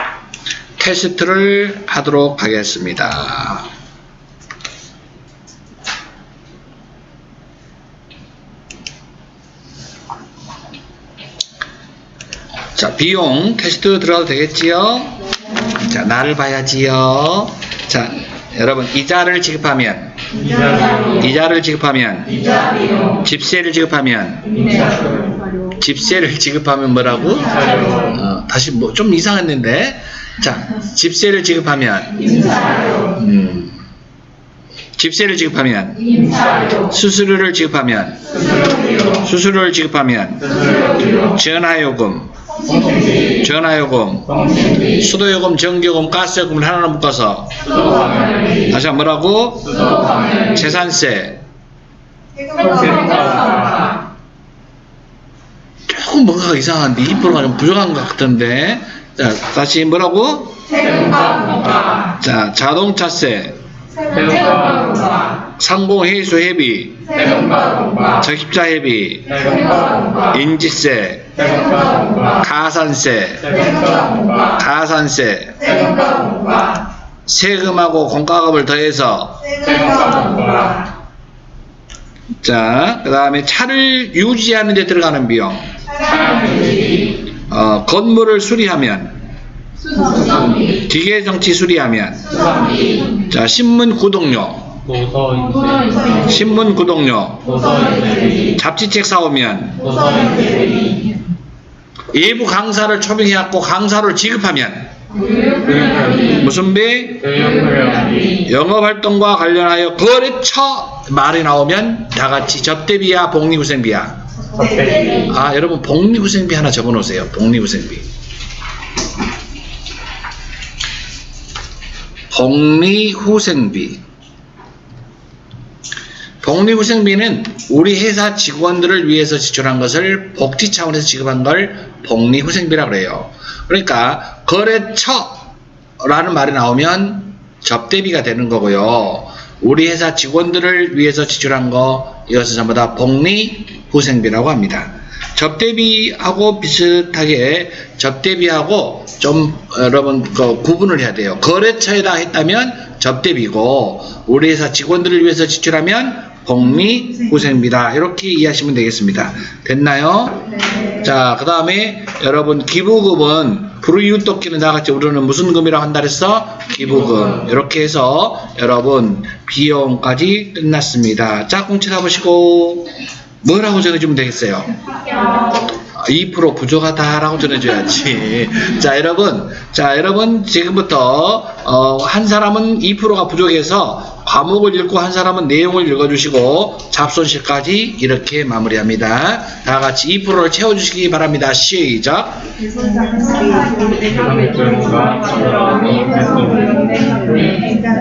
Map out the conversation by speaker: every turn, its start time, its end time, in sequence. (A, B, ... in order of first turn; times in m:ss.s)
0:00.8-0:03.7 A
0:12.8-0:20.1 A
0:20.5-0:21.0 B
0:21.0-0:22.5 A
0:23.1-0:24.6 A
0:25.8-0:32.5 A
0:33.1-0:33.8 A
0:35.0-0:38.3 A
0:39.1-0:42.3 A
0:43.3-0:47.8 A
0:48.7-0:51.4 A
0:52.5-0:53.9 B
0:55.9-1:00.8 A
1:01.0-1:01.7 B
1:02.1-1:03.6 A
1:04.1-1:05.2 B
1:05.5-1:07.2 A
1:07.4-1:07.9 B
1:08.0-1:11.6 A
1:11.6-1:12.2 B
1:12.3-1:13.8 A
1:13.7-1:14.4 B
1:14.4-1:16.2 A
1:17.3-1:19.7 A
1:19.6-1:20.8 B
1:22.4-1:25.7 A
1:26.3-1:26.6 B
1:27.5-1:29.2 A
1:30.1-1:30.4 B
1:30.6-1:32.6 A
1:33.1-1:34.9 A
1:34.9-1:36.2 B
1:36.2-1:37.6 A
1:37.8-1:38.2 B
1:38.3-1:40.1 A
1:39.9-1:40.8 B
1:42.1-1:44.9 A
1:45.5-1:46.2 B
1:46.2-1:47.5 A
1:47.4-1:48.2 B
1:48.3-1:54.2 A
1:54.6-1:55.2 B
1:55.2-1:58.0 A
2:02.3-2:04.0 A
2:06.4-2:40.4 A
2:41.0-2:52.9 A
2:53.4-2:54.7 A
2:55.9-3:12.4 A
3:14.1-3:17.7 B